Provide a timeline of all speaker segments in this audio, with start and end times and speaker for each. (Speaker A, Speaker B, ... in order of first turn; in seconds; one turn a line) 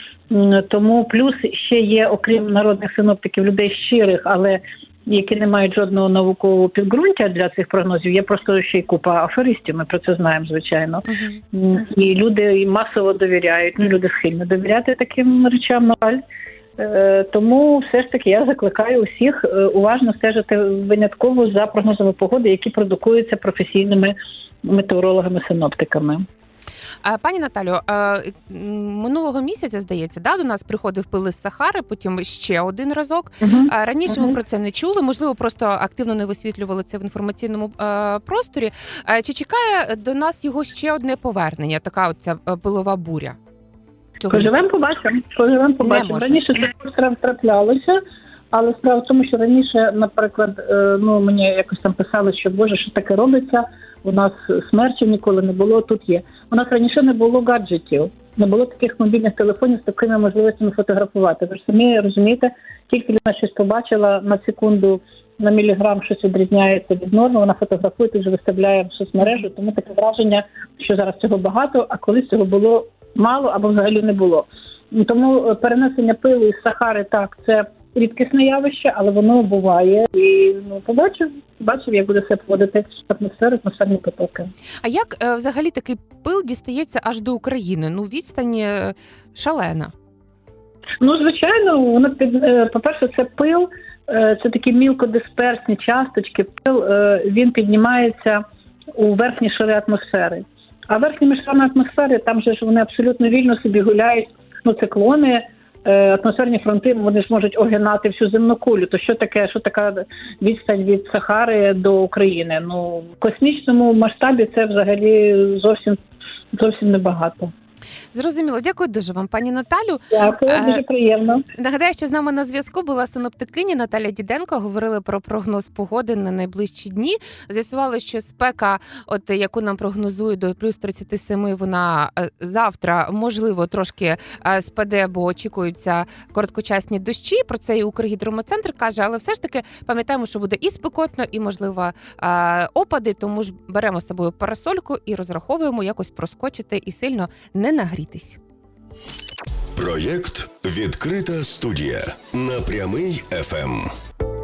Speaker A: 0.3-16.2
Speaker B: 11.1-11.4
Speaker A: 16.8-24.1
Speaker A: 24.6-26.2
Speaker B: 27.0-43.4
Speaker A: 33.4-34.4
Speaker B: 44.2-44.5
Speaker A: 44.3-48.0
Speaker B: 45.8-46.5
Speaker A: 48.5-84.5
Speaker B: 84.8-89.9
Speaker A: 91.0-98.4
Speaker A: 98.9-116.0
Speaker A: 116.5-117.5
Speaker B: 118.1-120.8
Speaker A: 120.1-121.4
Speaker B: 121.5-148.4
Speaker C: 149.7-153.9